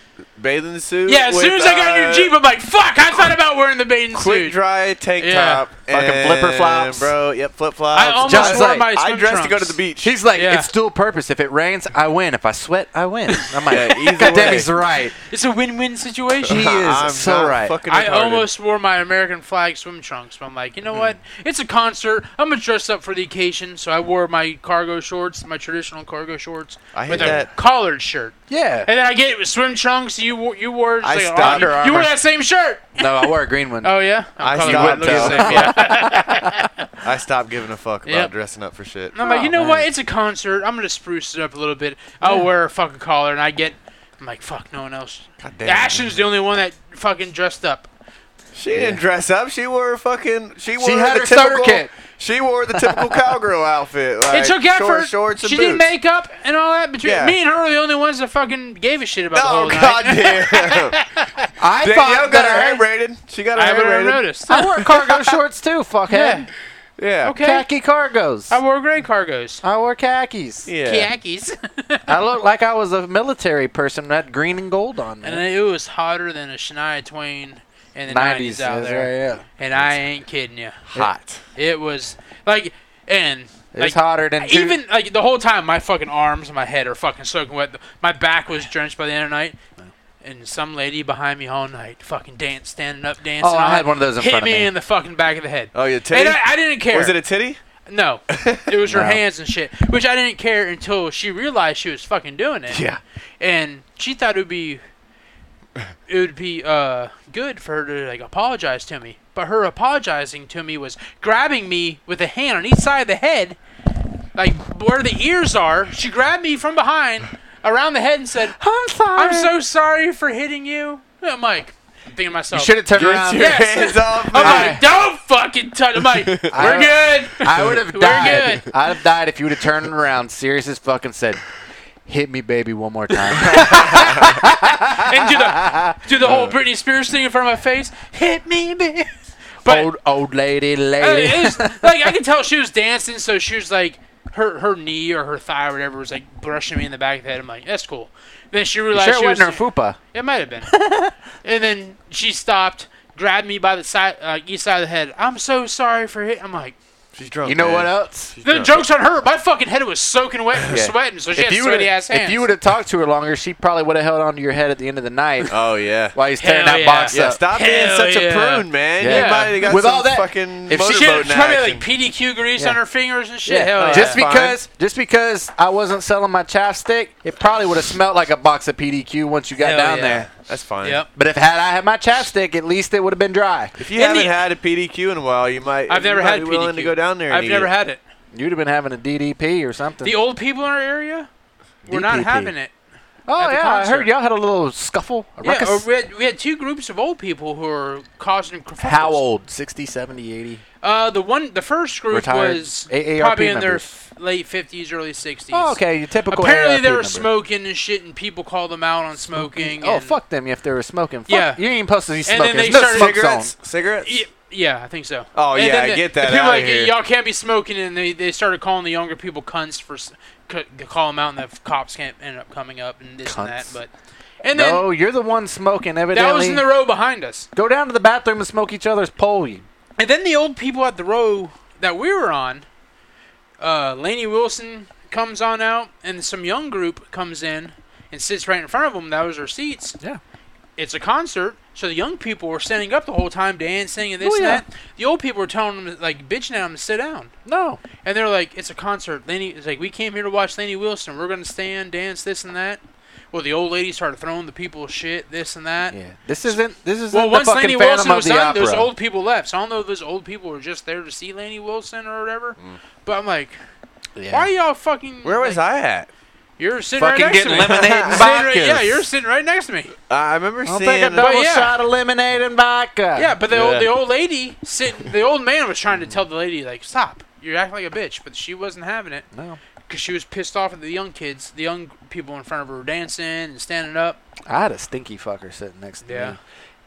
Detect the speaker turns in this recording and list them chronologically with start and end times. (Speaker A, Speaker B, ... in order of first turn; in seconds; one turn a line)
Speaker A: 0.4-2.3
Speaker B: 1.1-4.6
Speaker A: 4.1-10.2
Speaker B: 5.2-5.7
Speaker C: 5.9-7.1
Speaker B: 7.9-9.8
Speaker C: 8.2-8.9
Speaker C: 10.0-15.2
Speaker B: 10.3-10.7
Speaker B: 13.4-14.5
Speaker A: 13.7-14.7
Speaker B: 15.3-16.6
Speaker A: 16.5-18.5
Speaker C: 16.5-17.8
Speaker B: 17.9-36.9
Speaker A: 26.9-27.5
Speaker C: 27.1-27.4
Speaker C: 28.5-28.9
Speaker A: 31.0-32.1
Speaker C: 31.4-32.1
Speaker C: 33.0-33.9
Speaker A: 34.4-35.8
Speaker C: 34.6-36.7
Speaker A: 37.0-39.2
Speaker B: 38.1-38.3
Speaker B: 39.1-47.9
Speaker C: 39.2-39.9
Speaker C: 42.2-42.5
Speaker A: 45.4-46.1
Speaker A: 48.5-55.9
Speaker C: 48.7-49.0
Speaker C: 50.8-51.9
Speaker C: 52.7-53.2
Speaker B: 54.3-61.5
Speaker A: 57.0-57.4
Speaker A: 59.3-61.0
Speaker C: 61.6-62.8
Speaker A: 61.8-64.2
Speaker B: 63.6-64.8
Speaker C: 64.5-66.5
Speaker A: 64.8-65.3
Speaker B: 66.1-66.5
Speaker A: 67.0-67.4
Speaker B: 67.2-67.7
Speaker C: 67.4-68.6
Speaker B: 68.5-69.6
Speaker C: 69.6-70.7
Speaker A: 70.7-71.1
Speaker B: 70.8-72.1
Speaker C: 72.1-75.4
Speaker B: 75.2-80.8
Speaker C: 78.1-79.9
Speaker A: 80.9-81.4
Speaker B: 81.6-89.6
Speaker C: 83.7-84.8
Speaker B: 90.2-97.2
Speaker C: 93.4-94.7
Speaker A: 95.7-97.6
Speaker B: 97.9-102.8
Speaker A: 98.3-98.7
Speaker C: 98.9-99.2
Speaker C: 102.7-103.0
Speaker B: 103.4-104.8
Speaker B: 106.1-113.6
Speaker B: 114.3-118.6
Speaker C: 118.6-119.5
Speaker B: 119.1-122.8
Speaker C: 122.5-123.5
Speaker A: 122.9-124.8
Speaker B: 123.3-128.7
Speaker C: 124.4-124.8
Speaker A: 126.0-127.0
Speaker C: 126.5-131.4
Speaker A: 127.5-128.5
Speaker C: 132.1-136.2
Speaker B: 133.3-139.1
Speaker A: 133.5-134.2
Speaker A: 136.2-136.6
Speaker B: 139.6-139.9
Speaker C: 139.7-142.1
Speaker B: 141.0-150.7
Speaker C: 148.9-150.0
Speaker C: 150.7-151.1
Speaker B: 151.4-156.8
Speaker A: 157.2-158.8
Speaker C: 157.4-158.3
Speaker B: 158.4-162.5
Speaker C: 160.7-165.5
Speaker A: 165.5-166.2
Speaker C: 166.1-167.4
Speaker B: 166.4-169.6
Speaker A: 167.1-171.8
Speaker C: 169.0-171.2
Speaker B: 170.8-174.2
Speaker C: 173.4-180.3
Speaker A: 173.8-174.6
Speaker B: 179.6-180.3
Speaker A: 180.4-181.0
Speaker C: 181.1-183.8
Speaker A: 183.8-187.7
Speaker B: 183.9-184.3
Speaker B: 185.9-188.0
Speaker C: 188.3-190.2
Speaker B: 190.0-191.3
Speaker C: 191.8-192.5
Speaker B: 191.9-192.7
Speaker C: 193.3-195.8
Speaker B: 193.4-194.1
Speaker B: 195.4-199.2
Speaker C: 198.8-200.6
Speaker B: 200.8-205.8
Speaker C: 202.1-203.9
Speaker C: 205.5-207.3
Speaker B: 206.3-210.2
Speaker C: 209.2-213.5
Speaker B: 211.3-211.6
Speaker B: 212.2-213.2
Speaker A: 212.7-214.2
Speaker B: 214.0-223.9
Speaker A: 215.4-216.9
Speaker C: 223.2-223.8
Speaker B: 224.4-224.9
Speaker C: 224.5-226.7
Speaker B: 226.1-227.5
Speaker C: 227.6-229.7
Speaker B: 230.0-232.7
Speaker B: 233.6-240.0
Speaker B: 240.8-247.3
Speaker C: 244.2-244.6
Speaker C: 247.5-247.8
Speaker B: 248.0-256.0
Speaker C: 255.9-258.9
Speaker B: 257.1-263.6
Speaker C: 264.2-264.5
Speaker B: 264.3-265.6
Speaker A: 265.2-266.1
Speaker B: 266.6-269.9
Speaker C: 267.0-269.0
Speaker A: 267.6-268.3
Speaker A: 270.1-271.3
Speaker C: 270.7-273.4
Speaker B: 271.2-271.8
Speaker B: 273.1-279.3
Speaker A: 273.5-273.9
Speaker C: 275.9-276.2
Speaker C: 279.3-279.6
Speaker B: 279.9-284.2
Speaker C: 284.5-286.4
Speaker B: 286.0-286.4